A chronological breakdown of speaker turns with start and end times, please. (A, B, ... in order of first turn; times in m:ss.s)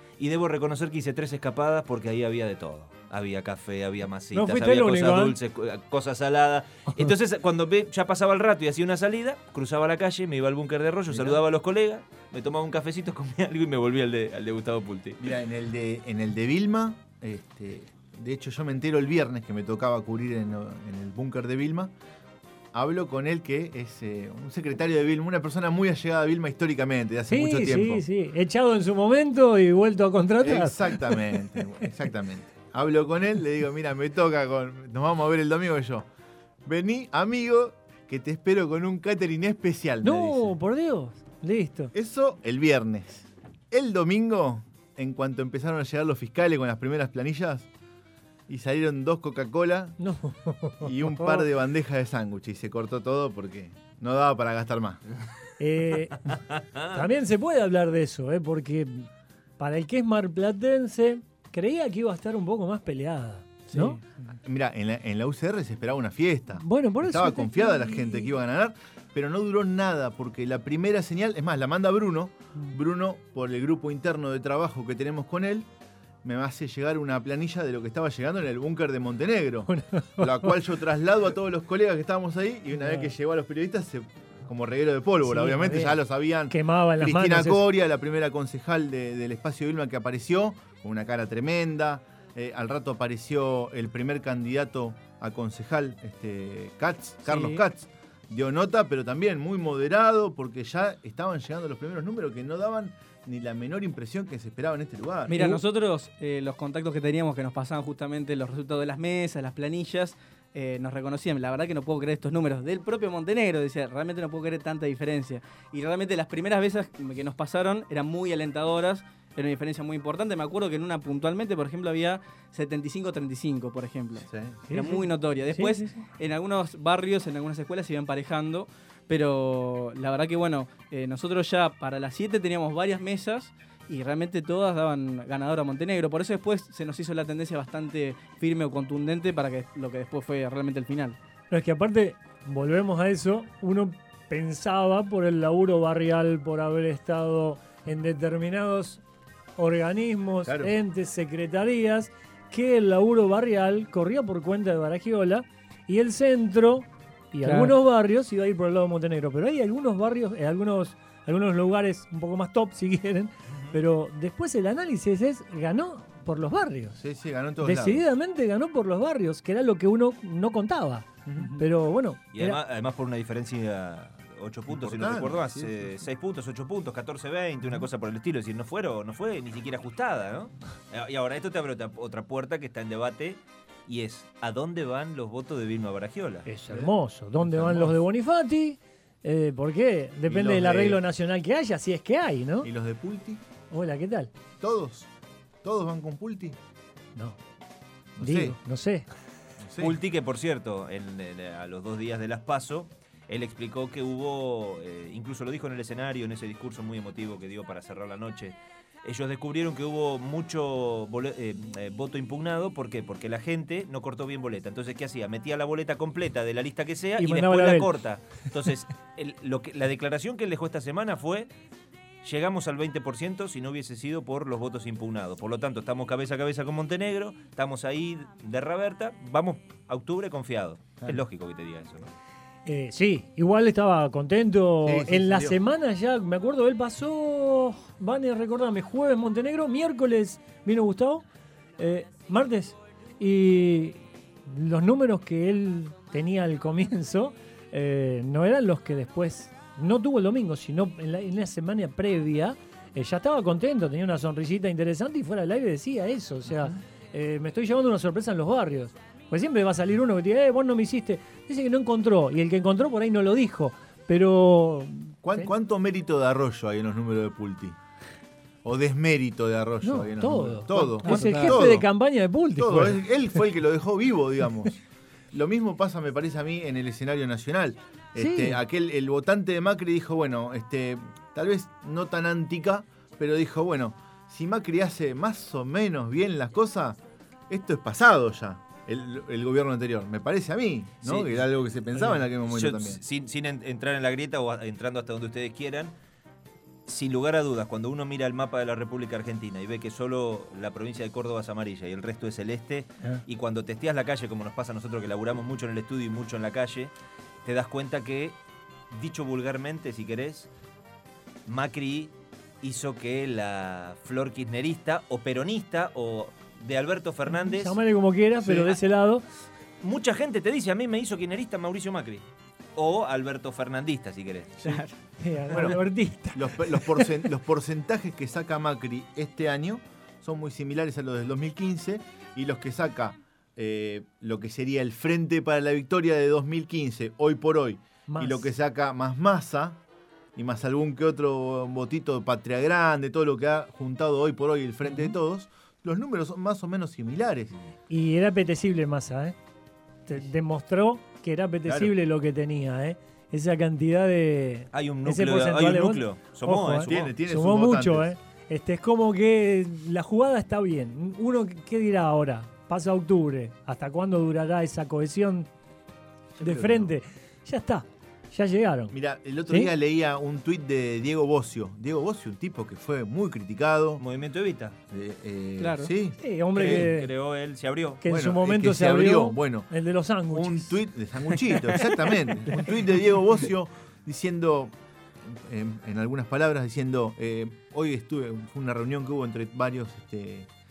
0:00.2-0:15.2 A
0:04.3-0:05.4 B
0:11.1-0:11.4 C
0:15.2-0:21.9 C
0:22.7-0:28.0 C
0:27.3-0:31.6 B
0:30.4-0:36.1 C
0:36.6-0:40.5 C
0:40.0-0:41.9 B
0:41.9-0:47.7 C
0:48.5-0:50.0 C
0:50.0-0:51.4 B
0:50.8-0:55.0 C
0:55.6-0:56.4 B
0:56.5-0:57.0 A
0:56.9-0:59.1 B
0:59.6-1:04.0 B
1:03.7-1:04.0 D
1:04.4-1:15.7 C
1:06.6-1:08.3 B
1:16.2-1:45.6 C
1:19.7-1:20.6 B
1:22.8-1:23.1 B
1:25.2-1:27.6 B
1:37.2-1:37.6 D
1:45.3-2:21.2 D
2:04.3-2:04.6 C
2:04.7-2:06.0 B
2:21.5-2:29.0 B
2:29.6-2:47.0 B
2:30.4-2:30.7 C
2:37.4-2:37.7 D
2:47.0-2:48.0 C
2:47.6-2:52.6 B
2:51.3-2:51.6 C
2:52.3-3:06.5 A
2:54.7-2:55.9 C
3:06.5-3:12.7 B
3:07.4-3:07.9 C
3:10.3-3:11.0 C
3:12.6-3:13.4 C
3:13.7-3:14.3 B
3:14.6-3:15.1 C
3:15.6-3:16.6 C
3:18.2-3:18.6 C
3:18.2-3:19.1 B
3:19.6-3:20.0 C
3:19.8-3:41.5 A
3:37.2-3:37.9 B
3:42.2-3:52.1 A
3:52.7-4:01.2 B
3:54.8-3:55.6 C
4:01.8-4:25.5 B
4:25.2-4:27.8 C
4:28.6-4:31.9 C
4:29.8-4:33.0 B
4:31.0-4:31.6 D
4:32.6-4:47.0 C
4:38.2-4:38.6 B
4:47.5-4:53.0 C
4:51.0-4:51.5 A
4:52.5-4:55.9 A
4:56.9-5:06.9 A
5:07.4-5:08.4 A
5:08.9-5:10.5 A
5:11.5-5:17.8 A
5:17.3-5:19.2 B
5:18.5-5:18.7 A
5:19.8-5:22.2 A
5:22.8-5:24.7 A
5:24.6-5:25.0 D
5:25.2-5:27.2 B
5:25.5-5:25.8 C
5:26.3-5:39.8 C
5:38.1-5:38.5 B
5:40.4-5:47.5 C
5:47.9-5:49.4 B
5:50.1-6:05.5 B
5:51.7-5:51.9 C
5:54.7-5:57.1 A
5:56.8-5:58.1 C
6:06.4-6:06.9 C
6:06.4-6:08.9 B
6:08.9-6:14.0 C
6:14.0-6:14.8 A
6:14.9-6:16.9 C
6:15.6-6:15.9 D
6:16.2-6:17.1 B
6:16.6-6:18.0 A
6:18.0-6:20.8 B
6:18.1-6:19.7 C
6:20.3-6:30.5 C